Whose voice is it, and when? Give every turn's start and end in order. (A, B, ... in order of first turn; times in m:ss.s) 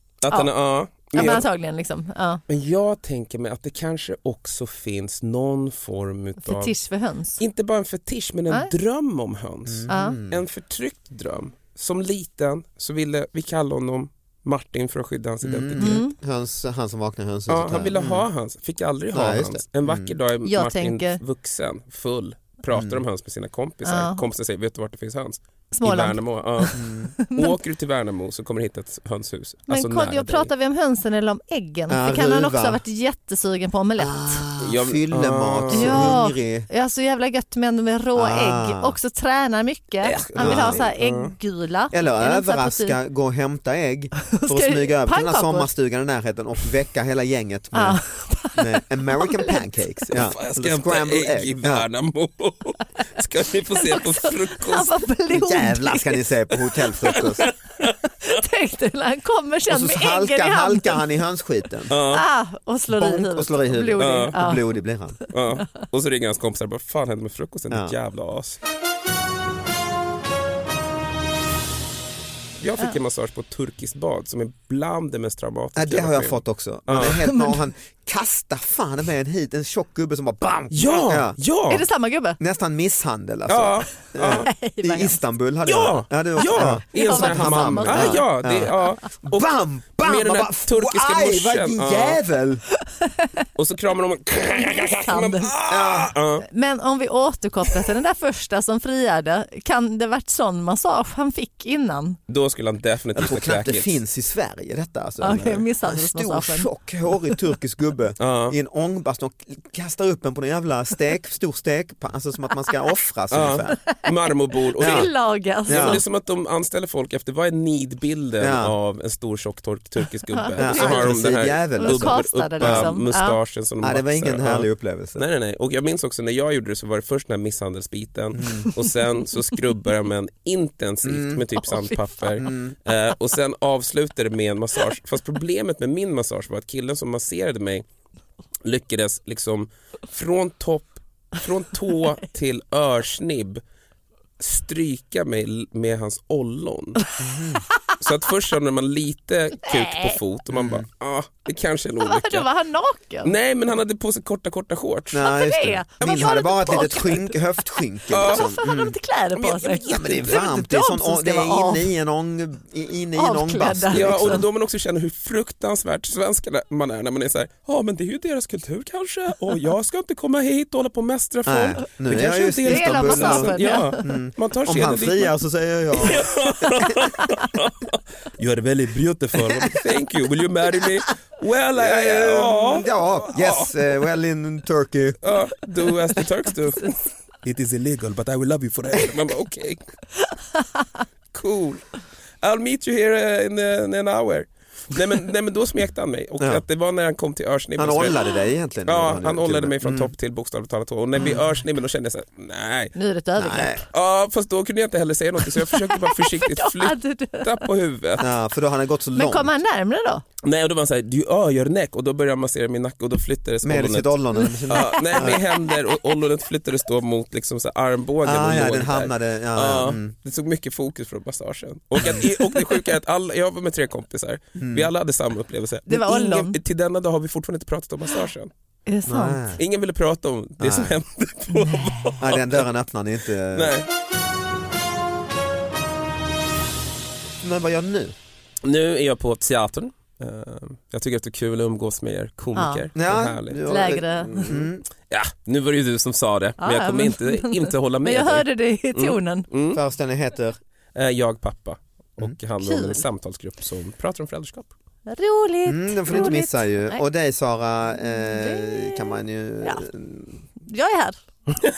0:00.2-0:01.4 A
0:01.1-0:02.4 B
0:02.5-0:06.8 A
0:06.4-0:07.4 B
0:07.4-0:16.0 A
0:09.6-0:10.4 C
0:09.9-0:10.2 B
0:15.4-0:18.2 C
0:15.8-0:16.1 B
0:17.5-0:30.5 A
0:19.1-0:20.1 C
0:20.4-0:21.2 B
0:22.7-0:23.0 C
0:23.8-0:24.2 B
0:25.7-0:27.6 B
0:26.8-0:27.1 C
0:29.7-0:34.4 B
0:31.9-0:32.8 C
0:34.0-0:36.7 C
0:34.6-0:36.2 A
0:35.7-0:43.0 B
0:38.1-0:39.0 C
0:40.0-0:41.3 A
0:40.4-0:40.9 C
0:41.9-0:48.0 C
0:44.2-0:45.7 B
0:47.7-0:50.0 B
0:48.6-0:51.9 C
0:50.1-0:54.9 A
0:53.8-0:56.2 B
0:55.3-0:57.5 C
0:57.1-0:57.5 B
0:57.1-0:57.9 A
0:58.2-1:01.0 B
0:59.7-1:01.9 C
1:01.9-1:02.2 A
1:02.1-1:04.8 B
1:02.9-1:05.2 C
1:04.0-1:04.4 A
1:05.3-1:08.6 A
1:07.7-1:07.9 C
1:12.6-1:17.2 A
1:15.7-1:21.4 C
1:17.0-1:17.6 B
1:20.7-1:21.8 A
1:21.7-1:22.4 B
1:22.4-1:32.6 C
1:23.5-1:24.5 A
1:24.4-1:25.2 B
1:25.6-1:32.2 A
1:26.4-1:28.8 B
1:33.0-1:33.3 B
1:33.6-1:36.4 A
1:34.9-1:35.5 B
1:35.7-1:36.2 C
1:36.5-1:42.2 B
1:42.3-1:44.0 A
1:43.1-1:53.8 C
1:45.2-1:46.7 B
1:45.3-1:45.6 A
1:48.2-1:48.6 A
1:53.3-2:17.8 A
1:54.8-1:56.0 B
1:54.8-1:55.1 C
1:55.6-1:56.0 C
1:58.4-1:58.7 C
2:00.3-2:03.4 B
2:00.6-2:02.9 C
2:03.8-2:05.2 C
2:08.3-2:08.7 C
2:11.0-2:11.4 C
2:11.6-2:12.5 B
2:12.4-2:12.8 C
2:18.6-2:23.6 A
2:24.4-2:27.0 A
2:27.2-2:27.6 C
2:28.0-2:32.5 A
2:29.6-2:30.2 B
2:30.5-2:30.8 C
2:32.0-2:33.3 B
2:33.2-2:35.2 A
2:35.1-2:39.0 C
2:35.2-2:37.4 B
2:36.0-2:36.3 A
2:38.1-2:41.9 B
2:38.1-2:38.6 A
2:39.4-2:40.4 A
2:39.9-2:44.4 C
2:43.2-2:44.4 B
2:43.9-2:55.3 A
2:51.4-2:57.0 C
2:52.6-2:54.0 B
2:56.0-3:03.7 A
3:01.8-3:05.2 C
3:05.2-3:09.8 A
3:11.3-3:18.2 A
3:17.8-3:20.1 C
3:18.8-3:22.9 A
3:23.0-3:23.8 B
3:23.4-3:23.8 C
3:23.9-3:28.2 A
3:25.6-3:27.6 B
3:28.2-3:29.6 C
3:29.2-3:30.2 B
3:30.4-3:48.5 A
3:33.6-3:35.4 C
3:34.4-3:36.1 B
3:38.2-3:40.1 C
3:42.0-3:42.2 C
3:44.6-3:44.9 C
3:45.9-3:46.6 B
3:48.9-3:49.4 B
3:49.1-3:49.6 C
3:49.6-3:52.6 A
3:50.6-3:51.0 C
3:52.2-3:53.8 C
3:53.5-3:53.9 A
3:57.4-3:58.1 C
3:58.6-4:03.6 A
4:02.5-4:02.8 B
4:02.9-4:04.8 C
4:03.7-4:04.6 B
4:05.1-4:09.8 A
4:06.6-4:09.5 B
4:09.7-4:10.6 C
4:10.9-4:14.7 A
4:12.6-4:13.0 B
4:15.1-4:17.0 B
4:15.6-4:20.4 C
4:18.0-4:19.8 B
4:20.6-4:21.2 B